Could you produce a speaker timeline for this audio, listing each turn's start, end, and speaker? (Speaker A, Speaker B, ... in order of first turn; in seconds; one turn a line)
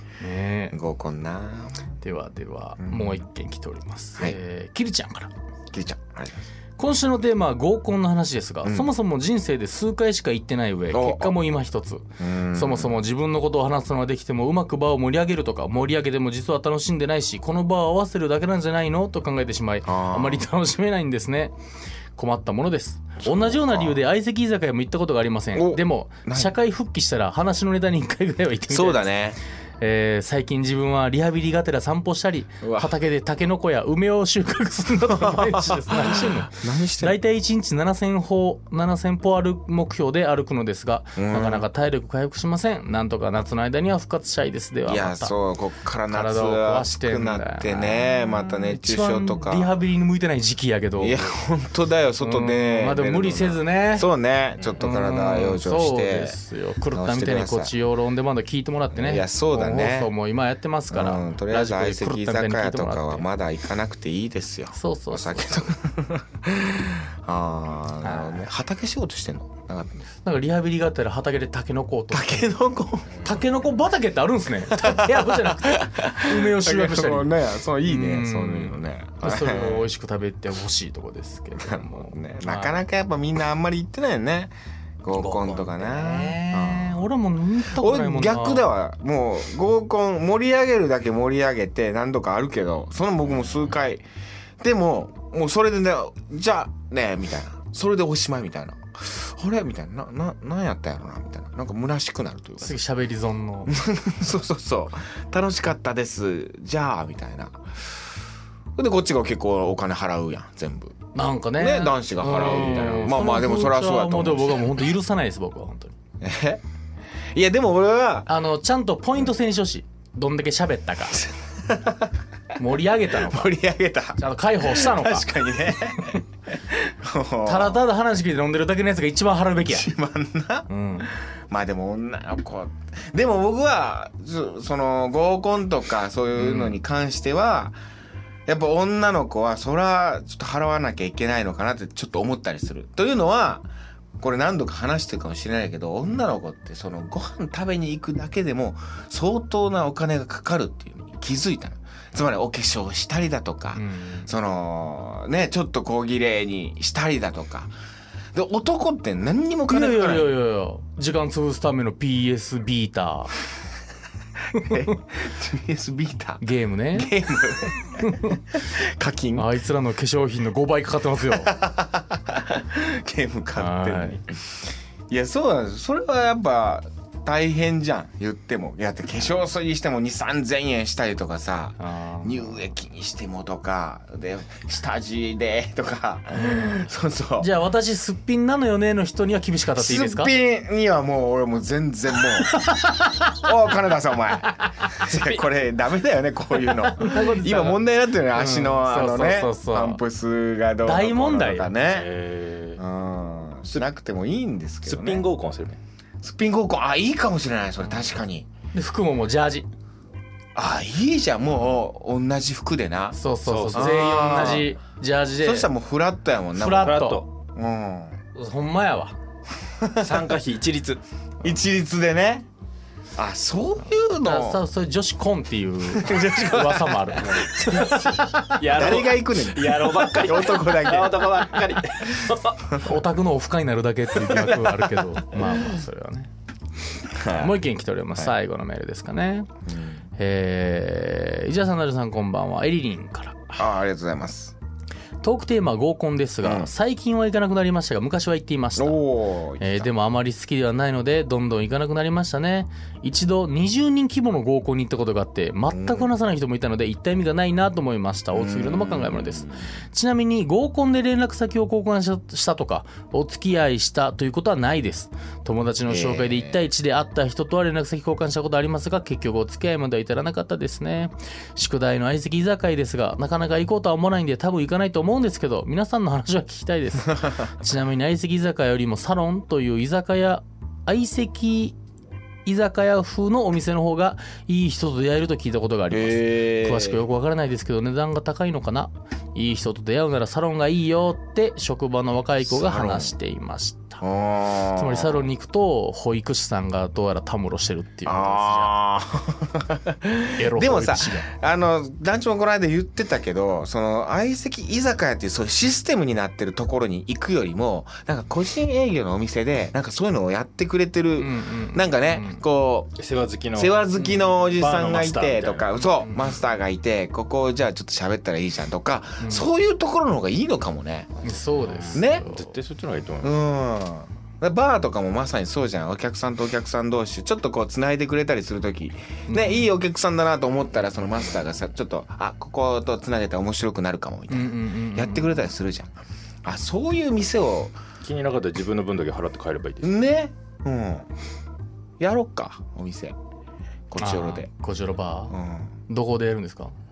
Speaker A: 0.2-0.8
Speaker B: 0.7-1.9
Speaker A: 2.0-5.3
Speaker B: 2.8-3.2
Speaker B: 5.7-6.5
Speaker A: 6.8-21.5
Speaker B: 8.6-8.9
Speaker B: 10.9-11.4
Speaker B: 12.2-13.0
Speaker B: 19.9-20.4
Speaker A: 22.2-29.1
Speaker B: 23.2-24.0
Speaker B: 25.6-26.5
Speaker B: 28.7-29.4
Speaker A: 29.8-45.4
Speaker B: 32.6-32.9
Speaker B: 35.1-37.2
Speaker B: 41.2-41.7
Speaker B: 44.9-49.7
Speaker A: 46.1-51.3
Speaker B: 51.0-56.4
Speaker A: 52.2-54.1
Speaker A: 54.8-63.3
Speaker B: 56.9-57.7
Speaker B: 58.9-60.1
Speaker B: 60.9-70.0
Speaker A: 64.7-65.7
Speaker A: 68.0-68.5
Speaker A: 70.2-72.5
Speaker B: 72.1-73.3
Speaker A: 73.2-82.8
Speaker B: 74.7-79.9
Speaker B: 81.6-87.0
Speaker A: 85.2-88.7
Speaker B: 87.8-94.0
Speaker B: 94.6-102.8
Speaker A: 102.6-103.8
Speaker B: 103.7-108.0
Speaker B: 108.8-114.8
Speaker A: 111.1-116.0
Speaker B: 116.2-116.6
Speaker B: 117.3-118.3
Speaker A: 118.3-121.3
Speaker B: 121.2-122.1
Speaker A: 122.6-123.5
Speaker B: 123.1-127.8
Speaker A: 124.2-125.4
Speaker A: 127.4-129.9
Speaker B: 129.6-137.8
Speaker A: 130.7-131.1
Speaker A: 136.4-136.8
Speaker B: 138.5-143.7
Speaker B: 144.2-157.7
Speaker A: 153.8-154.3
Speaker B: 158.3-160.3
Speaker A: 159.7-163.3
Speaker B: 164.5-169.5
Speaker A: 166.4-167.1
Speaker A: 168.0-168.4
Speaker A: 169.3-171.5
Speaker B: 171.4-187.5
Speaker A: 173.6-174.2
Speaker A: 181.8-182.6
Speaker A: 186.4-186.8
Speaker A: 187.4-190.3
Speaker B: 189.8-192.7
Speaker A: 192.4-193.3
Speaker B: 193.3-202.1
Speaker A: 196.6-200.0
Speaker A: 200.8-201.7
Speaker C: 201.8-202.8
Speaker B: 202.8-205.3
Speaker C: 204.8-205.8
Speaker B: 206.2-208.5
Speaker A: 208.7-209.7
Speaker B: 210.6-213.2
Speaker A: 213.1-215.7
Speaker C: 213.5-214.6
Speaker B: 213.7-214.8
Speaker B: 215.4-217.0
Speaker A: 216.6-217.2
Speaker C: 216.7-217.3
Speaker B: 217.5-218.2
Speaker A: 218.3-219.2
Speaker B: 219.8-220.2
Speaker C: 220.0-221.0
Speaker B: 221.4-222.5
Speaker B: 223.2-224.6
Speaker A: 224.2-228.6
Speaker B: 225.9-231.6
Speaker C: 227.2-227.9
Speaker C: 228.6-232.8
Speaker A: 232.7-236.3
Speaker B: 237.1-237.6
Speaker A: 237.3-239.5
Speaker B: 239.7-240.0
Speaker A: 240.2-243.6
Speaker B: 243.6-244.6
Speaker A: 245.2-249.0
Speaker B: 246.4-246.7
Speaker B: 248.8-249.9
Speaker A: 249.6-281.8
Speaker B: 255.7-256.1
Speaker B: 258.3-259.7
Speaker B: 265.9-266.6
Speaker A: 282.4-294.0
Speaker B: 285.9-287.0
Speaker B: 292.4-293.1
Speaker B: 294.0-295.3
Speaker A: 294.7-298.7
Speaker B: 298.1-313.0
Speaker A: 300.3-301.4
Speaker A: 311.2-312.4
Speaker C: 313.0-315.7
Speaker B: 313.6-321.1
Speaker C: 321.2-323.4
Speaker A: 321.2-322.6
Speaker B: 321.9-322.3
Speaker B: 323.2-337.8
Speaker A: 329.3-329.7
Speaker A: 334.3-335.5
Speaker C: 338.0-340.0
Speaker B: 339.8-341.1
Speaker B: 342.0-343.2
Speaker B: 343.9-344.5
Speaker A: 344.0-345.4
Speaker B: 345.3-345.7
Speaker A: 345.9-346.8